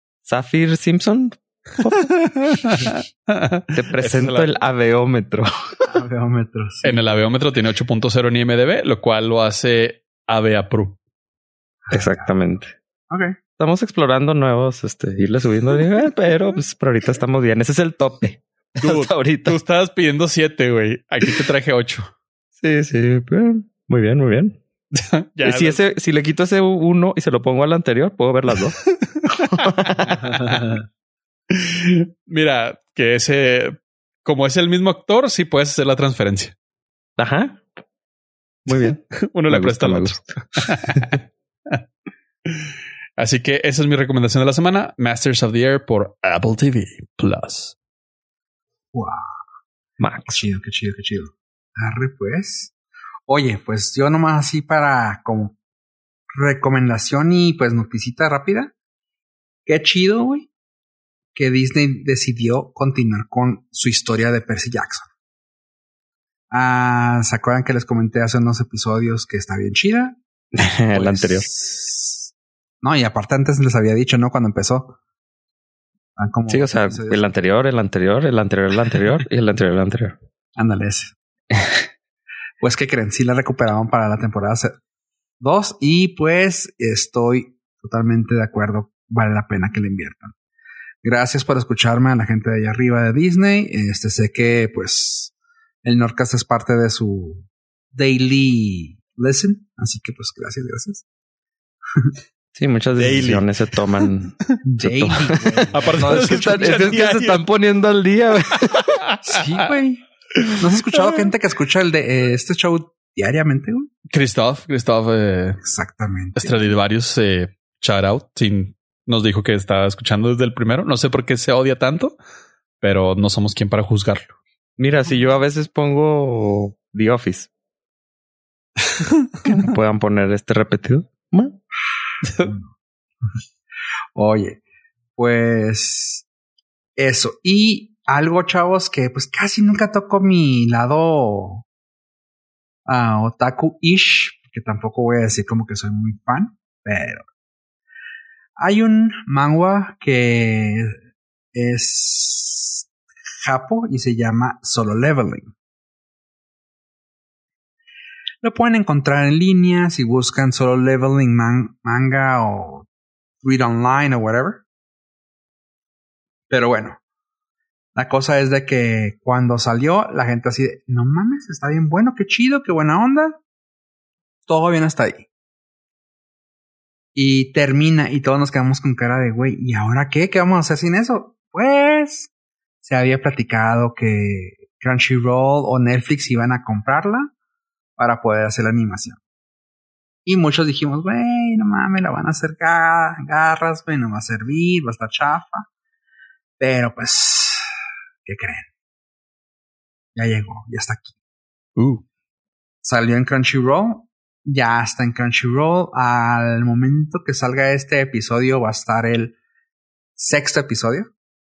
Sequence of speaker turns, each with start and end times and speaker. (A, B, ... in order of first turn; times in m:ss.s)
0:00.2-0:02.8 A
0:02.0-0:04.5 B
0:03.8-0:05.9 A
0:05.9-0:07.0 C
0:06.8-0:11.0 B
0:11.9-0:12.3 C
0:11.9-0:12.8 A
0:13.1-0:13.4 C
0:13.6-0:19.6 A
0:18.8-0:22.1 B
0:22.6-0:24.6 A
0:24.9-0:25.8 B
0:25.4-0:30.4 A
0:29.2-0:29.9 B
0:31.5-0:36.5 B
0:37.2-0:37.6 A
0:38.7-0:41.2 A
0:38.7-0:41.2 B
0:42.5-0:47.8 B
0:48.9-0:49.4 C
0:50.0-0:50.4 A
0:50.3-0:52.7 C
0:53.3-0:55.6 C
0:56.3-0:58.7 C
0:59.7-1:00.5 C
1:01.4-1:05.1 C
1:06.5-1:10.2 C
1:10.5-1:11.5 A
1:10.9-1:15.0 C
1:16.2-1:17.3 C
1:16.5-1:20.2 A
1:20.6-1:21.2 C
1:21.5-1:21.8 A
1:22.6-1:24.8 C
1:25.4-1:30.3 C
1:31.0-1:41.0 C
1:42.6-1:49.0 A
1:43.0-1:44.1 B
1:44.6-1:47.1 C
1:45.7-1:47.4 B
1:48.7-1:49.7 B
1:49.2-1:50.0 C
1:50.6-1:53.9 C
1:54.1-1:55.6 B
1:55.6-1:56.7 C
1:56.4-2:02.2 B
2:02.8-2:04.4 B
2:04.8-2:07.5 A
2:09.0-2:09.3 B
2:09.4-2:11.6 A
2:12.4-2:12.7 C
2:14.2-2:14.6 C
2:15.2-2:16.3 C
2:17.0-2:21.7 C
2:22.9-2:27.2 C
2:28.6-2:31.0 C
2:31.5-2:32.9 C
2:33.4-2:35.5 C
2:38.4-2:42.9 C
2:43.4-2:44.6 C
2:46.5-2:47.0 C
2:48.0-2:53.4 C
2:54.5-2:55.3 C
2:57.2-3:02.3 C
3:02.8-3:07.3 C
3:08.0-3:09.2 C
3:10.3-3:15.7 C
3:16.6-3:17.7 C
3:18.2-3:18.7 C
3:20.2-3:21.1 C
3:21.8-3:22.0 B
3:22.8-3:29.4 C
3:30.2-3:31.1 C